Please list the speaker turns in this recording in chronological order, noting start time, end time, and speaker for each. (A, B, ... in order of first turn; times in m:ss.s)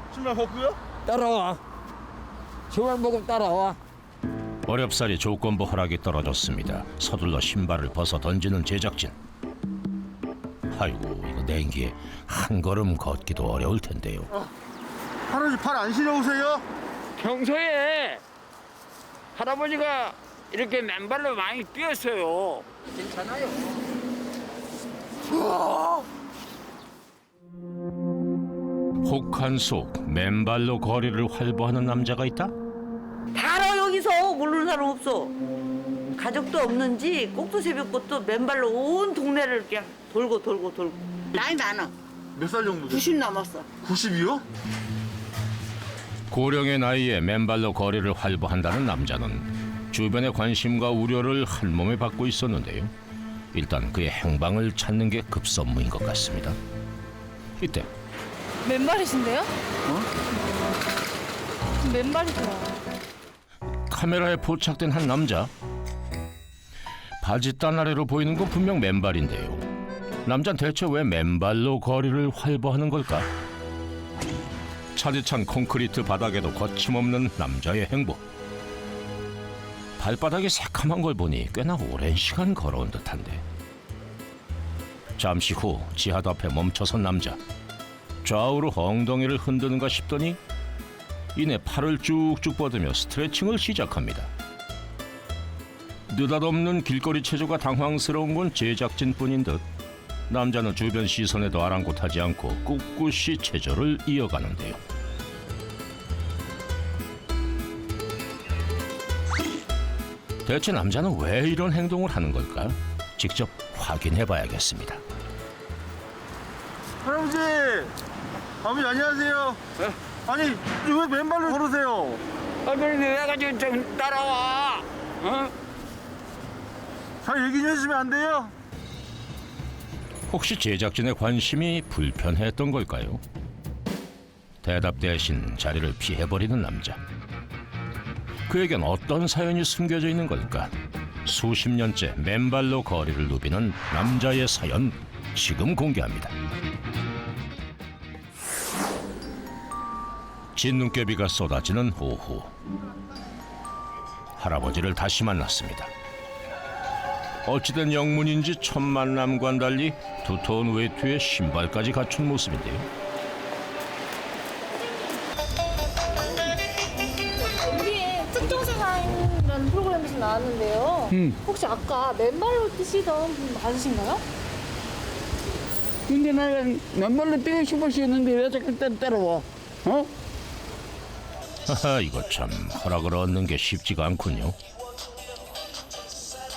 0:00.1-0:00.8 A
0:01.0-0:01.6 B
0:02.7-0:03.8 B
0:04.6-0:09.2 C
0:10.7-0:14.3 C
0:15.3-0:16.6 A
0:17.2-0:18.2 B
0:19.3-0:23.7 B
0:25.3-0:26.0 B
0:29.0-0:32.5 C
0:33.3-0:35.3 D
0:36.2-0:41.9 D
0:42.3-0:43.2 A
0:42.9-0:43.7 D
0:43.8-0:44.4 A
0:46.3-0:52.9 C
0:53.5-0:56.6 C
0:57.6-0:57.9 C
0:58.6-0:59.5 E
1:01.8-1:02.8 E
1:03.9-1:05.5 C
1:07.2-1:09.7 C
1:10.2-1:13.3 C
1:14.9-1:18.2 C
1:20.0-1:23.4 C
1:25.2-1:27.4 C
1:28.2-1:30.4 C
1:31.3-1:34.3 C
1:36.1-1:39.6 C
1:40.3-1:44.8 C
1:50.4-1:55.0 C
1:57.0-1:57.9 A
1:58.6-1:59.6 A
2:00.2-2:02.2 A
2:02.6-2:05.5 B
2:07.2-2:08.5 A
2:10.3-2:13.2 C
2:14.6-2:17.0 C
2:18.5-2:20.7 C
2:21.2-2:26.3 C
2:30.5-2:32.5 C
2:34.4-2:35.9 C
2:37.4-2:42.9 C
2:47.4-2:54.2 E
2:51.1-2:51.4 B
2:56.1-3:00.1 B
3:01.7-3:04.6 C